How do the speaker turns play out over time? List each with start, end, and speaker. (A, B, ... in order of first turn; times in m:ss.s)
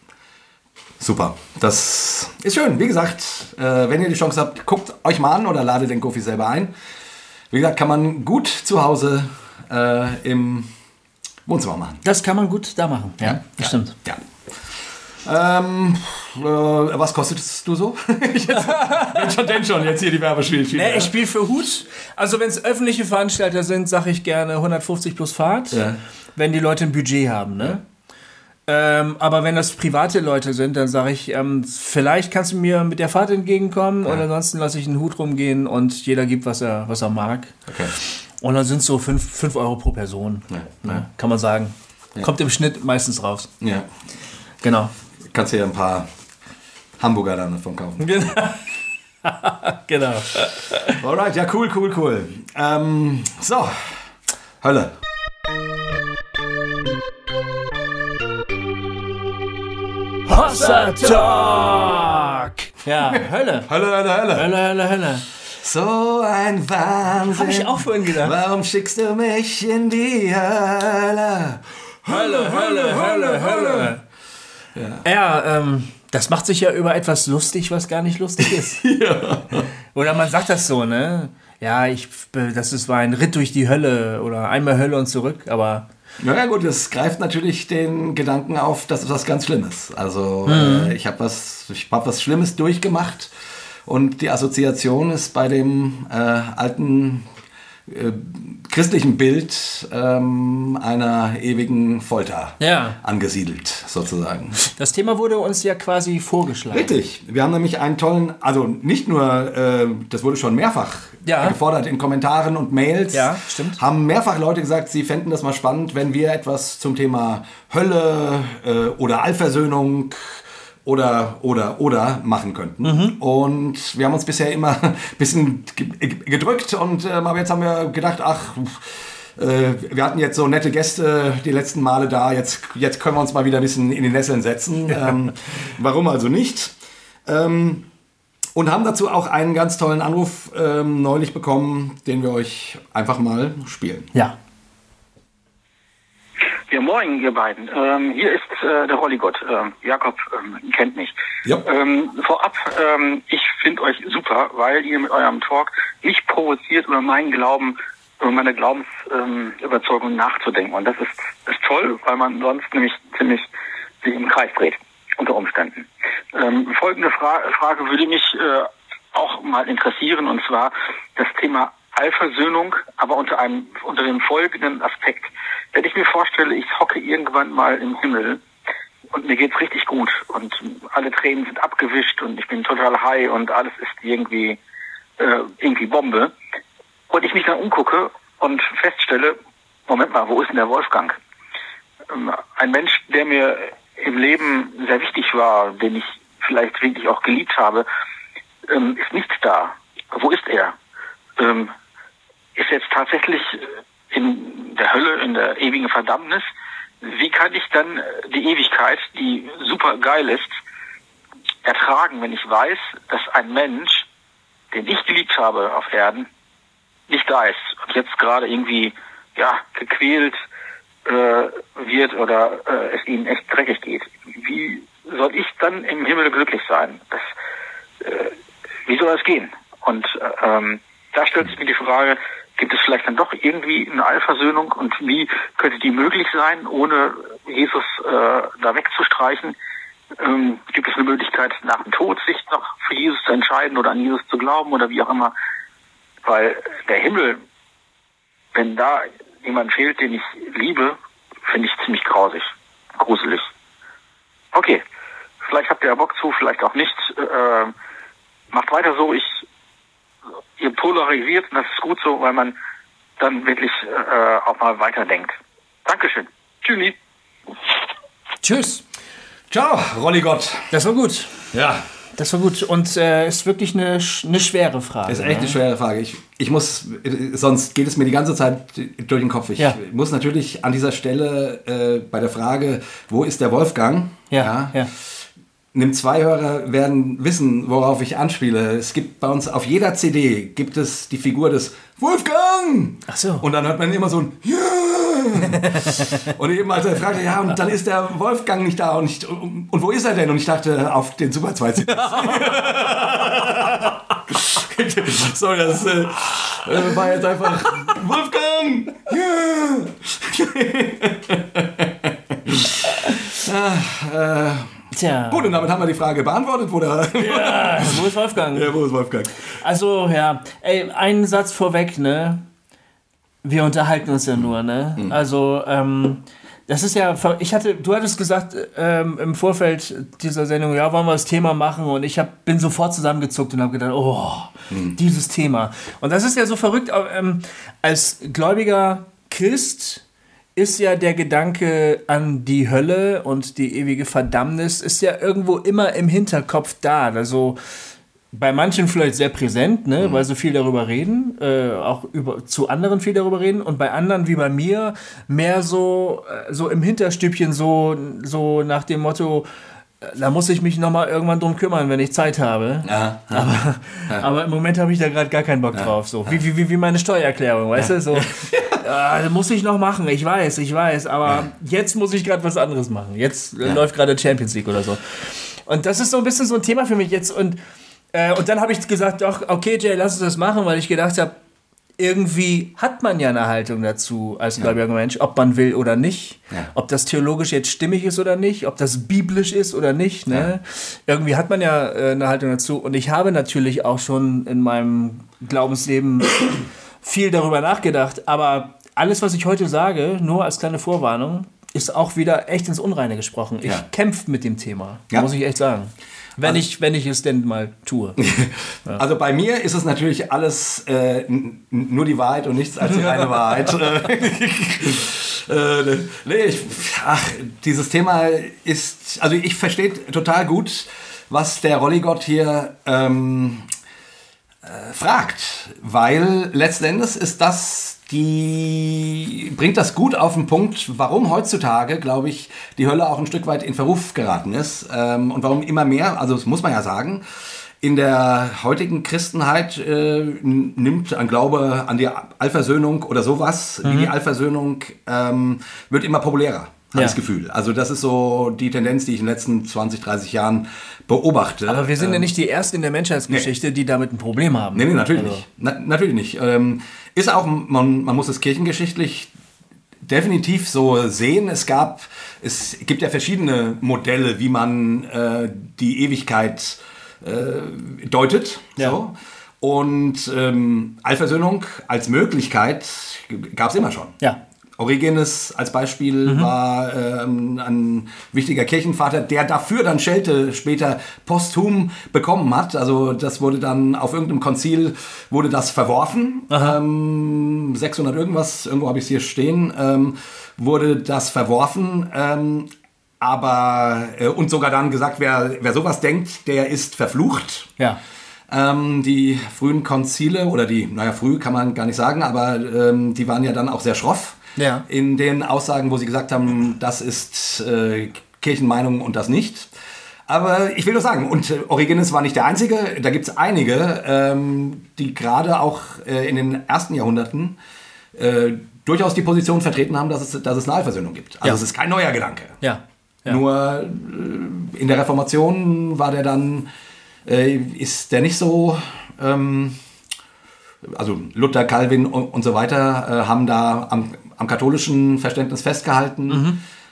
0:01.0-0:06.7 A
0:07.5-0:10.7 A
0:11.4-0:12.0 A
0:12.0-0:14.0 B
0:13.2-0:14.2 A
0:15.2-0:21.1 A
0:18.5-0:19.3 B
0:20.7-0:25.8 B
0:25.7-0:26.0 A
0:26.4-0:27.8 B
0:28.7-0:43.5 B
0:37.7-0:37.9 A
0:40.5-0:41.0 A
0:43.6-0:43.9 A
0:44.6-0:44.9 B
0:45.3-0:46.1 A
0:47.0-0:48.1 A
0:48.0-0:48.7 B
0:49.2-0:51.0 B
0:51.0-0:54.1 A
0:54.6-0:54.9 A
1:00.3-1:03.7 B
1:03.1-1:04.5 A
1:04.3-1:05.2 B
1:05.6-1:13.9 A
1:07.3-1:08.4 B
1:12.1-1:14.0 B
1:14.7-1:15.0 A
1:15.0-1:18.8 B
1:18.4-1:19.7 A
1:19.9-1:25.8 B
1:26.2-1:33.3 A
1:30.4-1:30.9 B
1:33.8-1:37.2 A
1:37.9-1:44.6 A
1:42.6-1:43.0 B
1:44.6-1:47.0 B
1:46.7-2:16.7 A
1:51.2-1:51.6 B
1:53.1-1:53.8 B
2:02.8-2:03.2 B
2:17.2-2:17.8 A
2:18.5-2:24.1 A
2:26.7-2:43.5 C
2:44.0-2:58.4 C
2:59.1-3:04.6 C
3:05.2-3:06.3 C
3:07.1-3:09.4 C
3:09.9-3:11.2 C
3:12.1-3:17.8 C
3:18.7-3:20.7 C
3:21.4-3:21.7 C
3:22.6-3:26.4 C
3:27.0-3:30.5 C
3:31.6-3:34.1 C
3:34.7-3:36.3 C
3:37.1-3:40.4 C
3:41.0-3:47.3 C
3:48.0-3:48.3 C
3:48.8-3:59.6 C
4:00.2-4:05.3 C
4:06.2-4:07.4 C
4:08.5-4:13.5 C
4:14.5-4:14.8 C
4:15.4-4:17.7 C
4:18.5-4:19.4 C
4:20.6-4:22.5 C
4:23.2-4:26.9 C
4:28.4-4:28.8 B
4:29.5-4:30.7 A
4:30.7-4:31.4 B
4:31.5-4:31.8 A
4:32.2-4:35.6 B
4:35.1-4:45.1 A
4:44.3-4:44.9 B
4:45.7-5:19.3 A
4:53.1-4:53.4 B
4:55.4-4:56.3 B
5:02.0-5:03.9 B
5:14.9-5:15.6 B
5:17.2-5:18.8 B
5:19.4-5:22.4 B
5:23.4-5:40.0 B
5:34.7-5:35.0 A
5:40.6-5:47.6 B
5:48.3-5:59.5 B
6:00.0-6:17.6 B
6:02.8-6:03.6 A
6:05.7-6:06.4 A
6:07.8-6:08.8 A
6:18.1-6:21.3 B
6:22.0-6:48.2 B
6:48.2-7:03.6 A
6:52.8-6:53.8 B
7:04.6-7:17.2 A
7:17.8-7:32.3 A
7:23.8-7:24.1 B
7:31.7-7:35.4 B
7:34.7-7:39.3 A
7:40.0-7:54.2 A
7:54.8-8:12.7 A
7:56.2-7:56.5 B
8:06.5-8:06.8 B
8:13.2-8:17.7 A
8:18.5-8:29.7 A
8:24.6-8:24.8 B
8:30.3-8:37.6 A
8:38.1-8:42.6 A
8:42.6-8:43.4 B
8:43.3-8:46.7 A
8:47.2-8:49.8 A
8:50.8-8:56.5 A
8:56.3-8:56.6 B